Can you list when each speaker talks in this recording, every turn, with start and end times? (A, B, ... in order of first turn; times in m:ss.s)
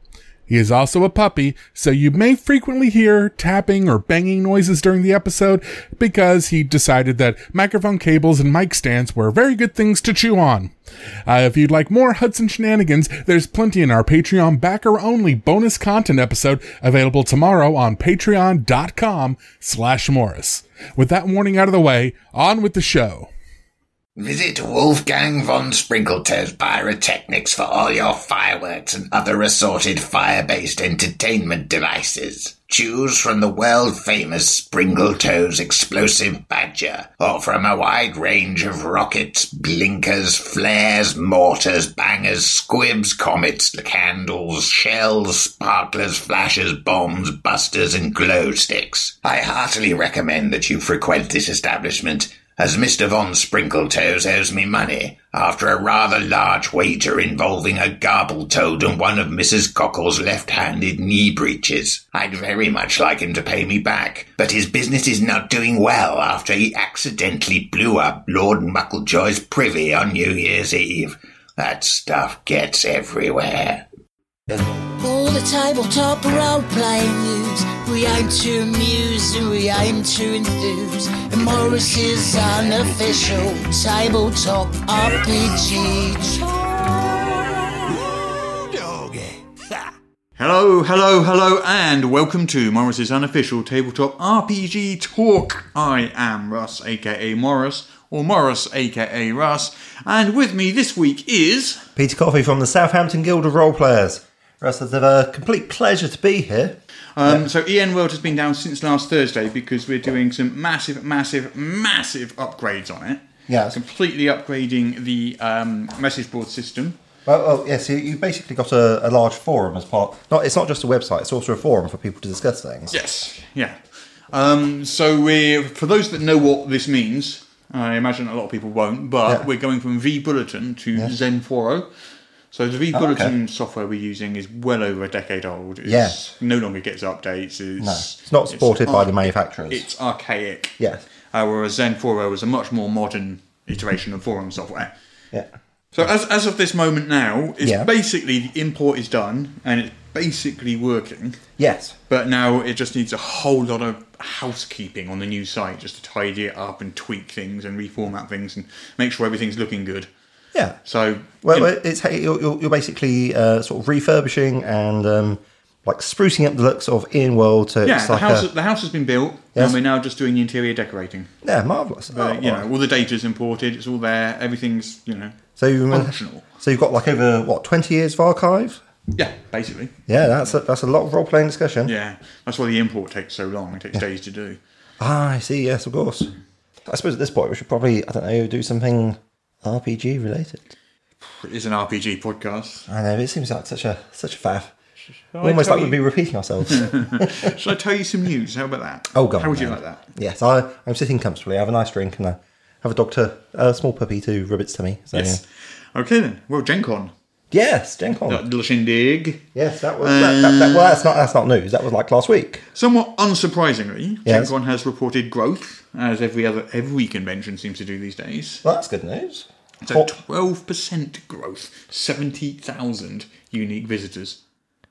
0:00.5-0:10.7 A
0:11.3-0:23.3 A
0:24.2-1:13.8 B
1:15.0-1:28.1 C
1:28.8-1:29.3 C
1:30.4-1:41.8 D
1:42.0-1:47.5 E
1:47.2-1:57.0 D
1:53.5-1:53.8 E
1:57.3-2:03.0 E
2:02.9-2:03.8 D
2:04.3-2:11.9 D
2:12.5-2:20.8 D
2:12.9-2:13.3 E
2:15.9-2:16.2 E
2:17.8-2:19.9 E
2:20.8-2:21.0 E
2:21.3-2:24.9 D
2:25.9-2:31.4 D
2:27.6-2:27.9 E
2:31.6-2:32.0 E
2:32.1-2:40.1 D
2:40.8-2:41.7 D
2:41.4-2:48.5 E
2:47.8-2:51.3 D
2:51.4-2:52.7 E
2:52.1-2:56.4 D
2:55.6-2:58.8 E
2:59.2-3:00.5 D
3:00.1-3:01.9 E
3:01.8-3:04.6 D
3:05.0-3:06.3 E
3:06.9-3:10.7 E
3:11.2-3:12.9 D
3:12.9-3:14.7 E
3:15.3-3:16.0 D
3:15.4-3:17.6 E
3:16.7-3:20.0 D
3:19.1-3:25.4 E
3:25.1-3:27.1 D
3:27.5-3:28.5 E
3:28.3-3:31.1 D
3:29.6-3:32.6 E
3:32.7-3:38.6 D
3:34.2-3:34.5 E
3:38.6-3:40.1 E
3:39.8-3:44.4 D